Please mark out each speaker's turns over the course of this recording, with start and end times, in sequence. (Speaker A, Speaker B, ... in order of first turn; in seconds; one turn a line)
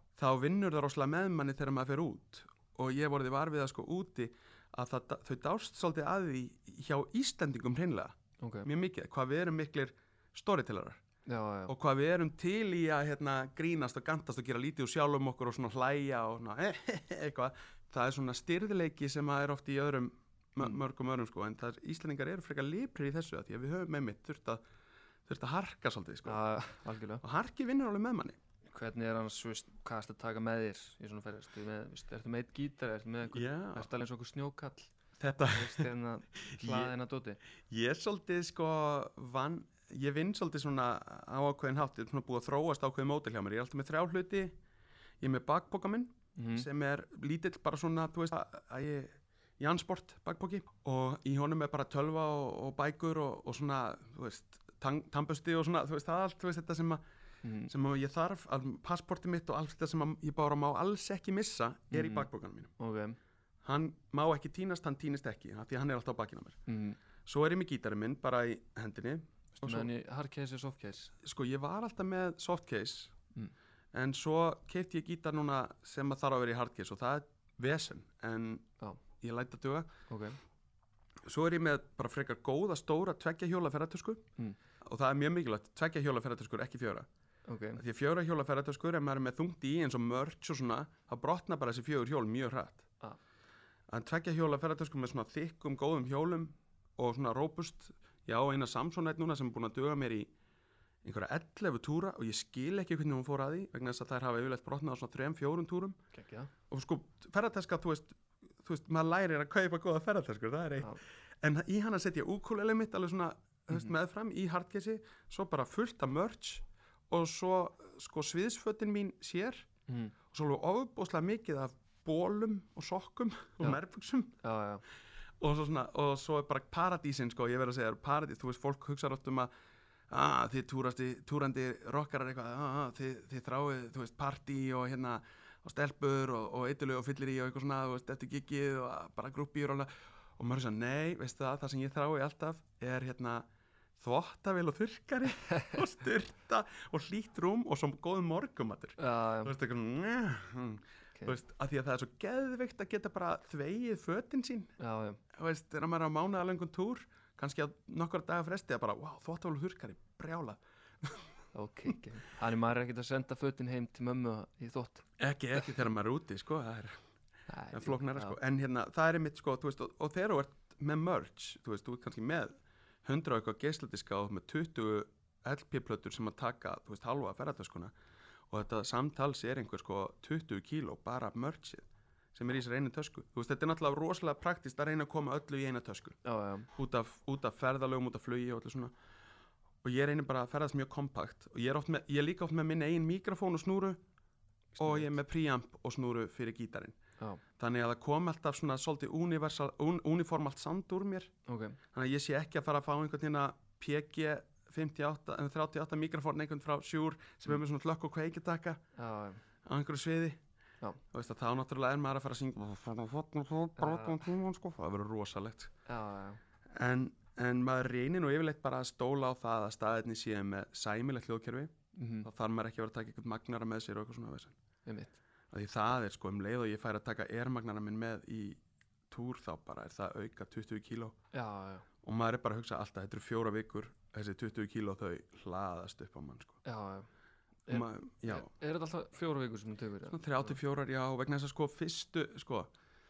Speaker A: 0.2-11.0
Speaker B: 8.4-8.7
Speaker B: 11.2-11.7
Speaker A: 11.7-24.6
Speaker A: 25.3-26.4
Speaker B: 26.2-27.2
Speaker A: 27.2-28.4
Speaker B: 28.6-34.9
Speaker A: 33.3-33.9
Speaker A: 35.2-36.9
Speaker B: 35.5-37.4
Speaker A: 37.7-44.5
Speaker A: 45.2-57.0
Speaker B: 46.4-46.7
Speaker B: 57.4-57.7
Speaker A: 57.7-62.7
Speaker B: 61.9-63.2
Speaker A: 63.6-66.6
Speaker B: 66.7-67.0
Speaker A: 67.2-69.9
Speaker B: 69.6-71.1
Speaker A: 71.2-73.2
Speaker A: 73.9-78.7
Speaker A: 79.2-80.0
Speaker B: 80.1-80.4
Speaker A: 81.2-84.3
Speaker A: 84.8-87.1
Speaker B: 87.5-87.8
Speaker A: 87.8-92.9
Speaker A: 93.9-100.3
Speaker A: 101.0-106.0
Speaker B: 106.1-106.5
Speaker A: 106.7-119.7
Speaker B: 119.9-120.1
Speaker A: 120.3-124.4
Speaker B: 124.4-124.8
Speaker A: 125.4-129.5
Speaker A: 130.1-143.5
Speaker A: 144.0-154.7
Speaker B: 149.0-149.5
Speaker B: 154.8-155.2
Speaker A: 155.3-161.3
Speaker B: 161.5-165.8
Speaker A: 165.2-166.9
Speaker B: 167.5-168.4
Speaker A: 167.7-177.9
Speaker A: 178.5-186.2
Speaker B: 186.2-186.7
Speaker A: 186.7-188.9
Speaker A: 189.8-194.0
Speaker B: 194.8-195.1
Speaker A: 194.8-197.0
Speaker A: 197.6-201.3
Speaker B: 201.5-201.8
Speaker A: 201.9-208.8
Speaker B: 209.0-209.4
Speaker A: 209.6-210.4
Speaker A: 211.1-215.7
Speaker B: 213.8-214.2
Speaker B: 215.9-216.4
Speaker A: 216.7-224.6
Speaker B: 221.9-222.3
Speaker B: 224.9-225.2
Speaker A: 225.5-231.2
Speaker B: 231.3-231.9
Speaker A: 232.0-236.6
Speaker B: 236.6-237.1
Speaker B: 237.7-240.6
Speaker A: 237.7-238.5
Speaker A: 240.1-242.7